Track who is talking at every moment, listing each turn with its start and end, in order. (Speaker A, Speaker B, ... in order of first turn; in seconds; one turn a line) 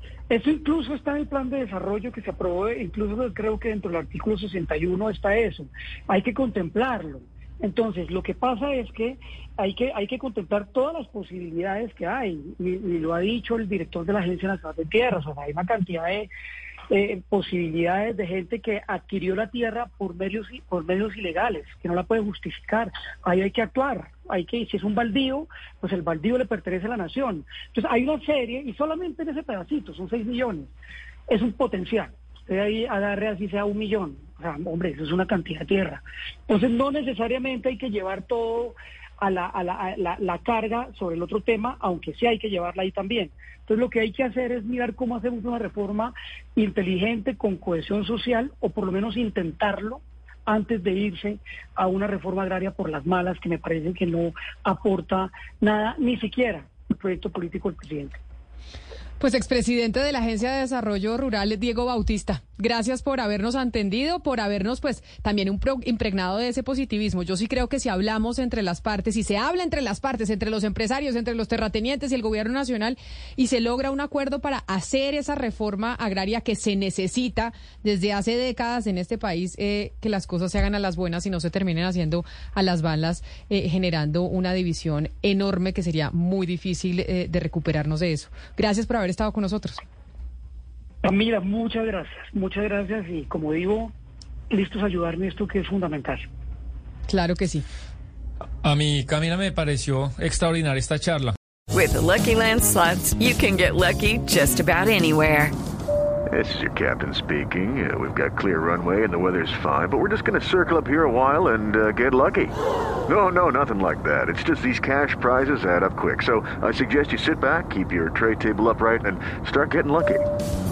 Speaker A: 0.3-16.3
Speaker A: 16.9-30.7
Speaker A: 31.3-58.2
Speaker B: 59.2-89.8
Speaker A: 91.0-93.9
Speaker A: 94.5-96.2
Speaker B: 97.1-97.7
Speaker C: 98.6-101.3
Speaker D: 101.7-105.5
Speaker E: 106.3-112.5
Speaker E: 113.1-120.3